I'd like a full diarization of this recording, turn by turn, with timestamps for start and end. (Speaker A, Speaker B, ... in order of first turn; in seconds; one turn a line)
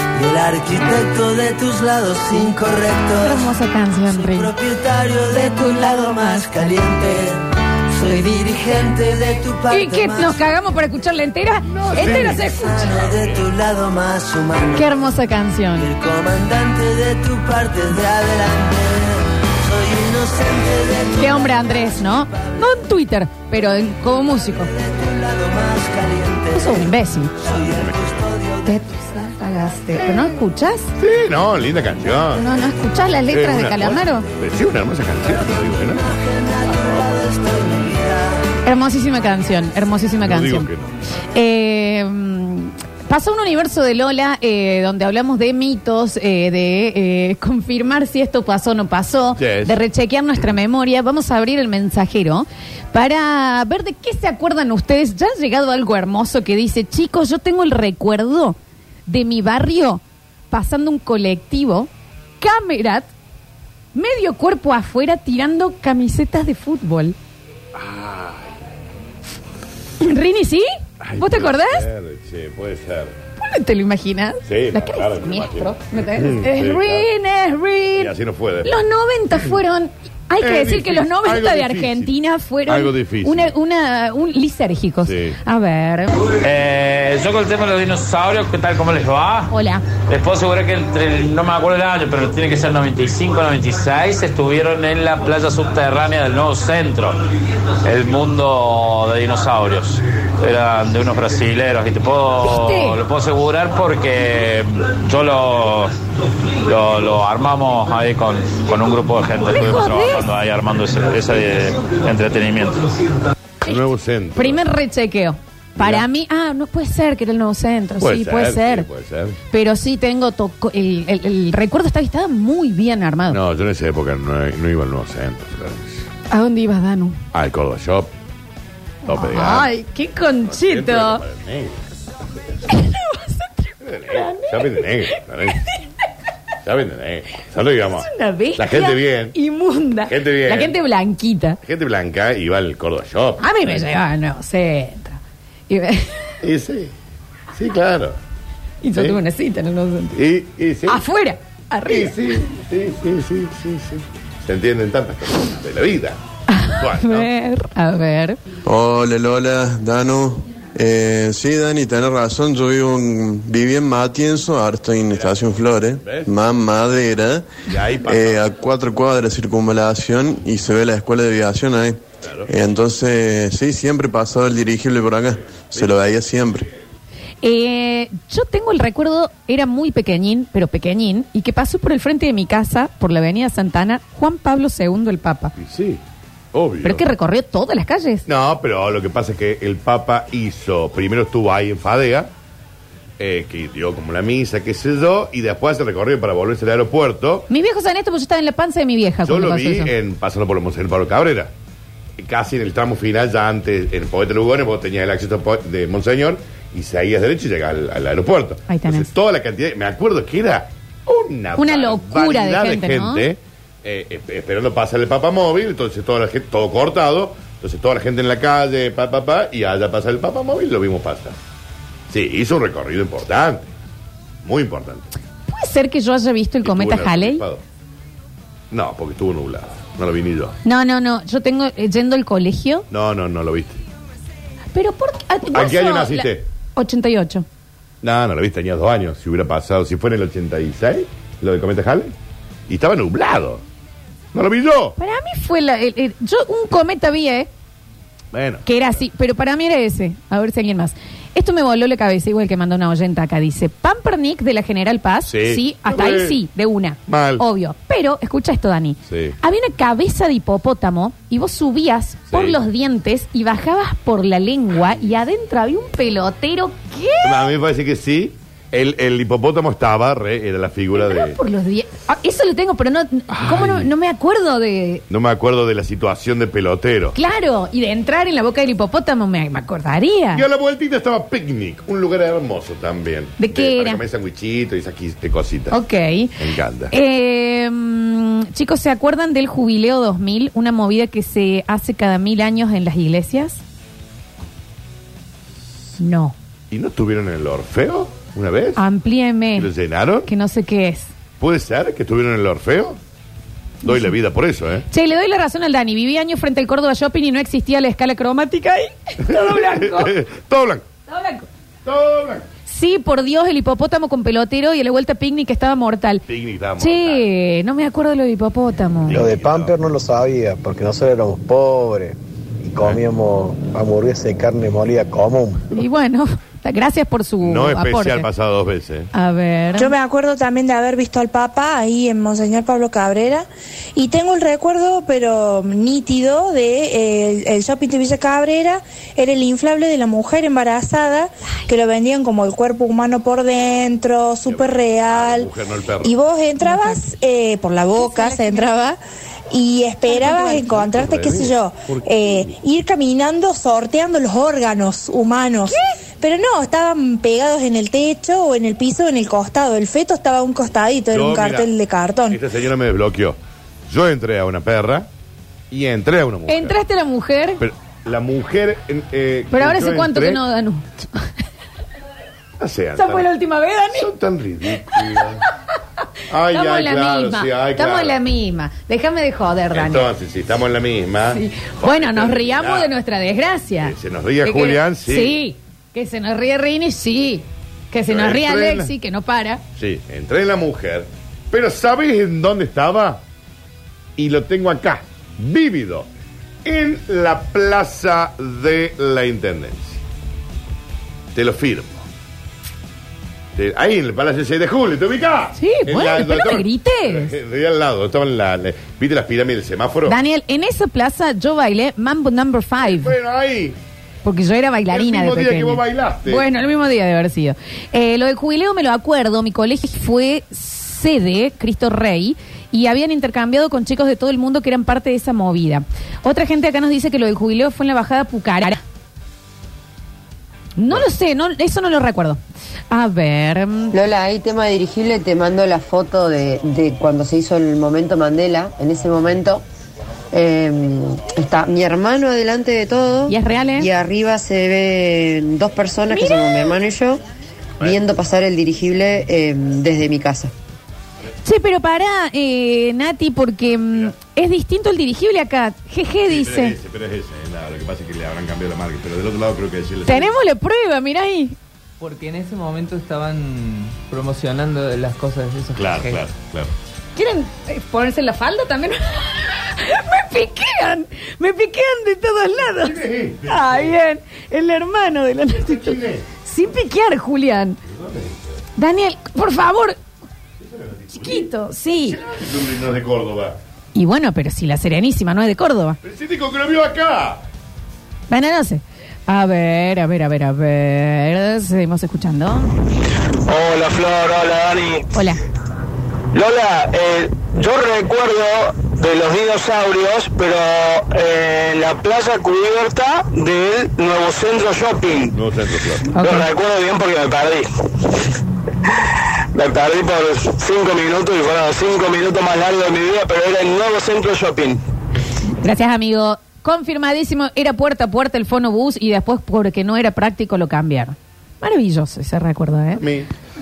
Speaker A: 0.1-3.4
Speaker B: 0.7-1.5
Speaker C: 3.2-4.5
Speaker A: 4.1-7.3
Speaker C: 5.3-6.4
Speaker A: 7.9-10.3
Speaker C: 9.7-13.0
Speaker D: 11.7-13.5
Speaker A: 12.1-14.9
Speaker C: 14.7-15.9
Speaker A: 15.8-19.0
Speaker B: 19.0-19.5
Speaker A: 19.6-22.4
Speaker C: 21.1-24.7
Speaker A: 24.3-26.7
Speaker B: 24.9-26.3
Speaker C: 26.5-27.3
Speaker D: 27.4-28.2
Speaker A: 27.6-28.7
Speaker C: 28.6-30.9
Speaker D: 31.0-32.4
Speaker C: 32.3-34.2
Speaker D: 33.3-36.1
Speaker A: 35.6-38.0
Speaker B: 37.9-38.3
Speaker C: 38.6-40.7
Speaker D: 40.2-40.9
Speaker C: 41.3-63.1
Speaker D: 49.4-49.7
Speaker C: 63.9-67.2
Speaker D: 67.8-68.5
Speaker C: 70.0-71.9
Speaker D: 71.0-73.1
Speaker C: 73.4-86.1
Speaker D: 74.5-77.1
Speaker D: 78.0-78.7
Speaker D: 80.4-82.1
Speaker D: 82.7-83.5
Speaker D: 85.0-85.3
Speaker E: 86.4-89.5
Speaker C: 89.5-89.8
Speaker E: 90.1-97.2
Speaker E: 97.8-106.0
Speaker C: 102.4-103.0
Speaker E: 106.6-112.8
Speaker C: 109.5-110.3
Speaker D: 113.6-114.6
Speaker C: 114.3-118.9
Speaker D: 115.8-116.0
Speaker D: 118.0-119.4
Speaker C: 119.5-123.4
Speaker D: 123.3-126.0
Speaker C: 126.3-127.2
Speaker D: 127.3-128.1
Speaker D: 129.1-129.7
Speaker C: 129.1-131.2
Speaker D: 130.5-131.8
Speaker C: 132.7-135.2
Speaker D: 133.8-135.7
Speaker D: 136.6-139.3
Speaker C: 137.9-141.6
Speaker D: 140.1-140.8
Speaker D: 141.6-143.8
Speaker C: 143.4-146.3
Speaker D: 146.4-146.9
Speaker D: 147.5-148.2
Speaker C: 148.8-150.2
Speaker D: 150.1-151.0
Speaker C: 150.8-152.3
Speaker D: 151.8-156.2
Speaker C: 156.5-158.4
Speaker D: 156.7-157.3
Speaker F: 158.7-167.4
Speaker D: 166.0-166.3
Speaker D: 167.7-168.5
Speaker F: 168.1-176.7
Speaker D: 172.2-172.5
Speaker C: 177.4-185.5
Speaker D: 185.6-186.0
Speaker D: 186.5-187.0
Speaker C: 186.8-188.2
Speaker D: 188.2-192.3
Speaker D: 193.2-197.5
Speaker C: 197.5-199.9
Speaker D: 199.2-201.5
Speaker D: 202.2-221.4
Speaker C: 208.7-209.1
Speaker C: 211.6-213.3
Speaker D: 222.1-223.7
Speaker D: 224.4-225.1
Speaker C: 225.5-227.4
Speaker D: 226.6-227.6
Speaker D: 228.7-230.5
Speaker C: 230.6-232.8
Speaker D: 232.9-233.8
Speaker C: 234.7-237.4
Speaker D: 235.5-236.4
Speaker D: 238.0-242.1
Speaker D: 242.7-243.6
Speaker D: 244.3-244.9
Speaker C: 245.0-247.5
Speaker D: 248.3-248.7
Speaker C: 248.6-267.5
Speaker D: 255.3-256.4
Speaker D: 257.1-257.4
Speaker D: 259.1-259.3
Speaker D: 262.3-262.6
Speaker D: 267.2-271.4
Speaker C: 270.9-275.0
Speaker D: 273.3-273.9
Speaker D: 275.1-277.1
Speaker C: 277.1-280.4
Speaker D: 280.3-285.8
Speaker C: 283.4-284.0
Speaker C: 285.7-286.4
Speaker D: 286.4-286.9
Speaker C: 286.9-293.6
Speaker C: 296.0-296.3
Speaker D: 296.7-298.8
Speaker C: 298.8-299.7
Speaker D: 299.5-300.3
Speaker C: 300.2-301.1
Speaker D: 301.4-303.0
Speaker C: 303.8-304.1
Speaker D: 303.8-304.9
Speaker C: 304.9-310.1
Speaker D: 309.2-310.8
Speaker C: 311.1-311.5
Speaker D: 311.8-312.4
Speaker C: 312.6-316.2
Speaker D: 316.2-317.2
Speaker C: 316.8-319.2
Speaker D: 319.1-319.8
Speaker G: 319.1-325.6
Speaker C: 325.7-328.3
Speaker D: 327.4-329.1
Speaker C: 329.1-329.9
Speaker B: 329.8-349.0
Speaker D: 344.4-346.2
Speaker C: 346.6-347.0
Speaker C: 347.9-348.9
Speaker B: 349.5-362.4
Speaker C: 350.0-350.8
Speaker D: 350.7-352.4
Speaker D: 361.1-361.7
Speaker D: 362.3-363.4
Speaker D: 363.9-365.1
Speaker D: 365.7-366.8
Speaker C: 366.5-367.6
Speaker D: 367.6-370.4
Speaker C: 369.5-371.1
Speaker D: 372.6-373.3
Speaker C: 372.9-374.1
Speaker D: 373.9-375.4
Speaker D: 376.3-378.2
Speaker C: 376.5-380.1
Speaker D: 379.7-382.9
Speaker C: 381.3-389.6
Speaker D: 383.8-385.4
Speaker D: 388.1-388.9
Speaker D: 389.8-393.2
Speaker D: 394.2-396.1
Speaker D: 396.6-400.0
Speaker D: 401.3-402.0
Speaker D: 403.6-410.2
Speaker C: 405.5-407.3
Speaker C: 410.0-413.1
Speaker D: 412.8-413.8
Speaker C: 414.2-428.8
Speaker D: 414.9-416.4
Speaker C: 430.8-433.9
Speaker H: 433.9-439.6
Speaker H: 440.3-447.2
Speaker C: 443.3-443.9
Speaker C: 446.1-446.8
Speaker H: 447.8-450.5
Speaker C: 451.4-456.8
Speaker D: 456.3-460.3
Speaker C: 460.1-461.6
Speaker I: 462.0-466.2
Speaker D: 465.7-466.7
Speaker C: 467.1-477.8
Speaker D: 472.8-473.9
Speaker D: 475.5-476.2
Speaker D: 477.9-478.5
Speaker C: 478.8-480.0
Speaker D: 480.6-481.5
Speaker C: 481.1-482.2
Speaker D: 482.0-483.6
Speaker C: 483.9-486.0
Speaker D: 486.0-487.4
Speaker C: 488.3-492.7
Speaker J: 493.4-495.0
Speaker C: 495.1-495.4
Speaker J: 496.3-505.3
Speaker D: 505.3-506.2
Speaker C: 506.1-506.5
Speaker J: 506.2-507.7
Speaker J: 509.5-514.8
Speaker C: 515.6-523.0
Speaker D: 523.0-523.3